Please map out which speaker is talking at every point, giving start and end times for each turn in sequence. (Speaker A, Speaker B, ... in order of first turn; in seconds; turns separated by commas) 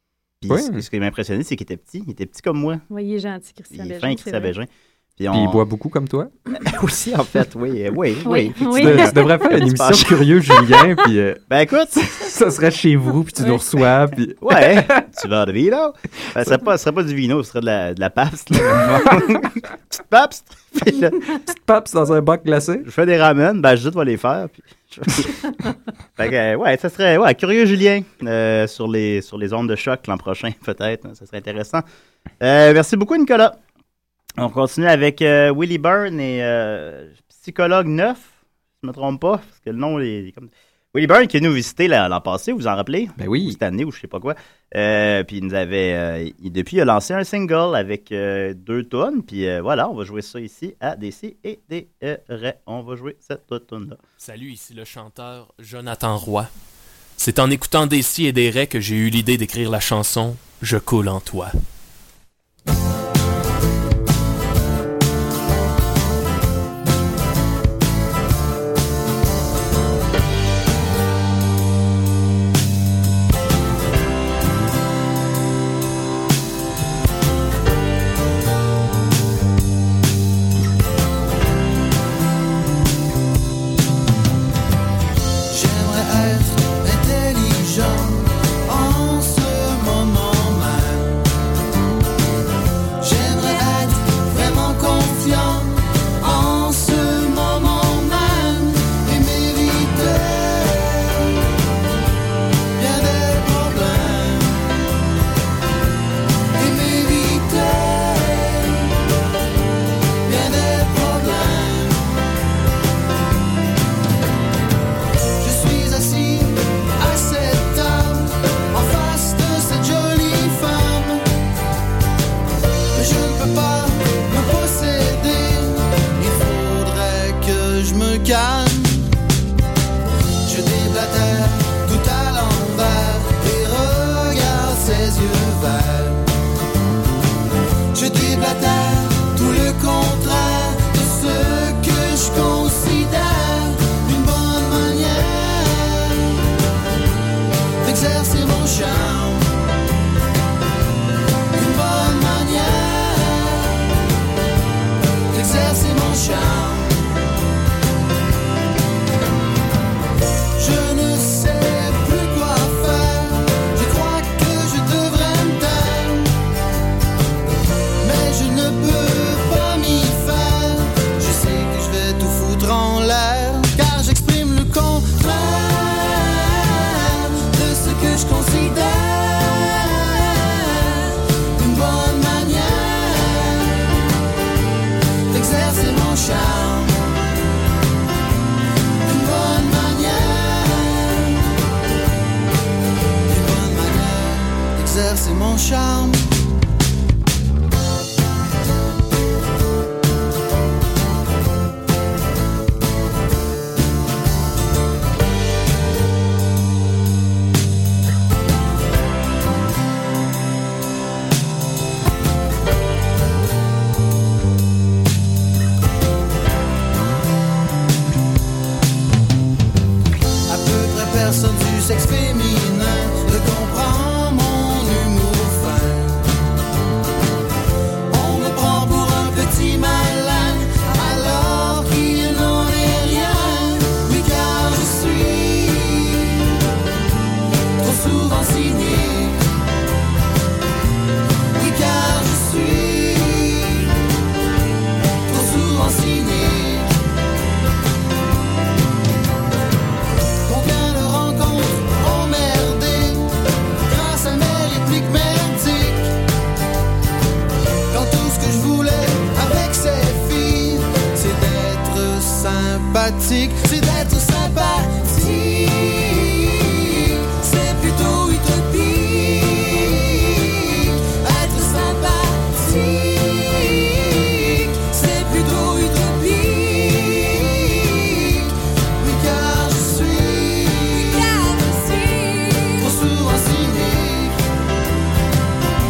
Speaker A: 0.4-2.8, Speaker B: 0.5-0.8, Speaker C: 2.9-4.5, Speaker A: 3.7-5.6, Speaker B: 5.3-6.3, Speaker A: 6.5-10.2, Speaker C: 8.2-9.3, Speaker B: 8.7-11.4, Speaker A: 11.5-12.0, Speaker B: 11.9-15.1, Speaker A: 14.4-21.2, Speaker B: 21.5-22.9, Speaker A: 22.9-25.4, Speaker A: 26.2-31.8, Speaker A: 32.4-33.6, Speaker A: 34.4-54.0, Speaker B: 43.2-43.6, Speaker D: 54.2-56.5, Speaker D: 57.2-61.5, Speaker E: 85.5-91.2, Speaker E: 93.0-101.4, Speaker E: 102.8-104.6, Speaker E: 106.5-108.9, Speaker E: 110.3-112.0, Speaker E: 115.4-121.2, Speaker E: 122.9-129.1, Speaker E: 130.4-136.2, Speaker E: 137.9-146.2, Speaker E: 147.8-149.5, Speaker E: 151.5-153.8, Speaker E: 155.3-157.0, Speaker E: 160.6-166.3, Speaker E: 168.0-183.8, Speaker E: 185.3-187.0, Speaker E: 189.1-191.4, Speaker E: 193.3-196.3, Speaker E: 220.5-226.2, Speaker E: 228.1-236.3, Speaker E: 237.8-239.4, Speaker E: 241.6-243.8, Speaker E: 245.3-246.9, Speaker E: 250.5-253.3, Speaker E: 253.9-256.1, Speaker E: 257.9-266.6, Speaker E: 267.3-278.5, Speaker E: 279.0-281.6, Speaker E: 282.7-284.4